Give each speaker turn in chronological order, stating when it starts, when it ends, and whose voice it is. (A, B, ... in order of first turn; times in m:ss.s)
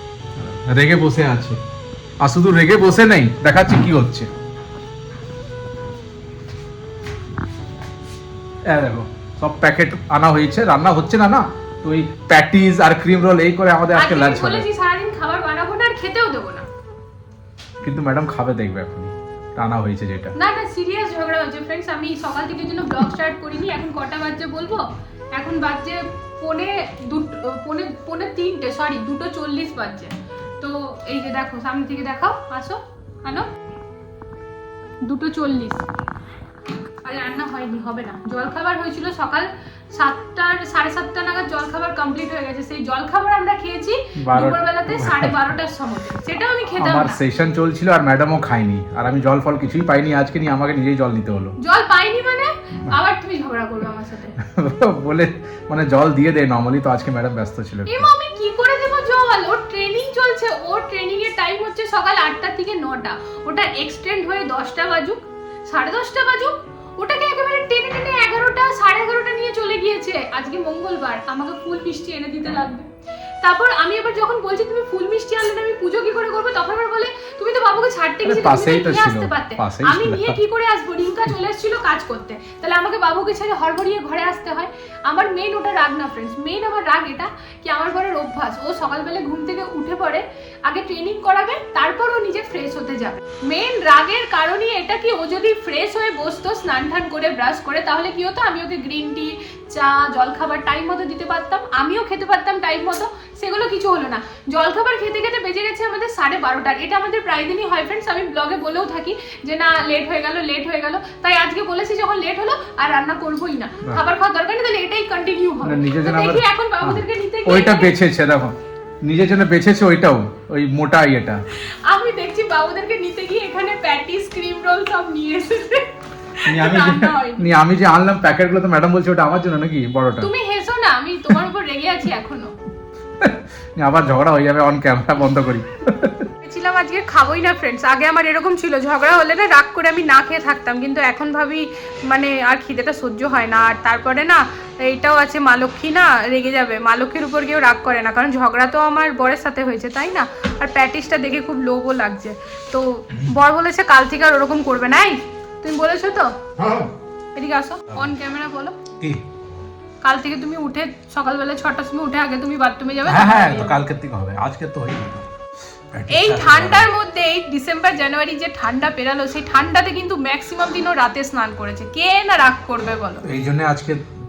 0:00.4-0:01.6 A
0:02.2-0:04.3 A
0:08.7-0:14.7 A
0:13.9-0:16.7 B
0:17.8-0:20.3 A
0:20.4-0:33.5 B
0:35.0-0:35.8 B
0:37.0-0:47.2 B
0:44.2-0:45.4 A
0:46.8-0:51.6 A
0:51.6-0:54.4 B
0:54.5-0:58.1 A
0:57.9-1:12.9 B
1:13.4-1:58.0 B
1:18.2-1:20.4 A
1:55.6-2:01.4 A
2:01.6-2:07.5 B
2:06.5-2:10.3 A
2:10.2-2:12.6 B
2:13.2-2:16.3 A
2:16.4-2:36.4 B
2:36.6-2:36.9 A
2:37.3-2:38.8 B
2:40.0-2:43.8 B
2:43.1-2:45.3 A
2:45.9-2:46.9 A
2:46.1-2:53.2 B
2:53.2-2:54.1 A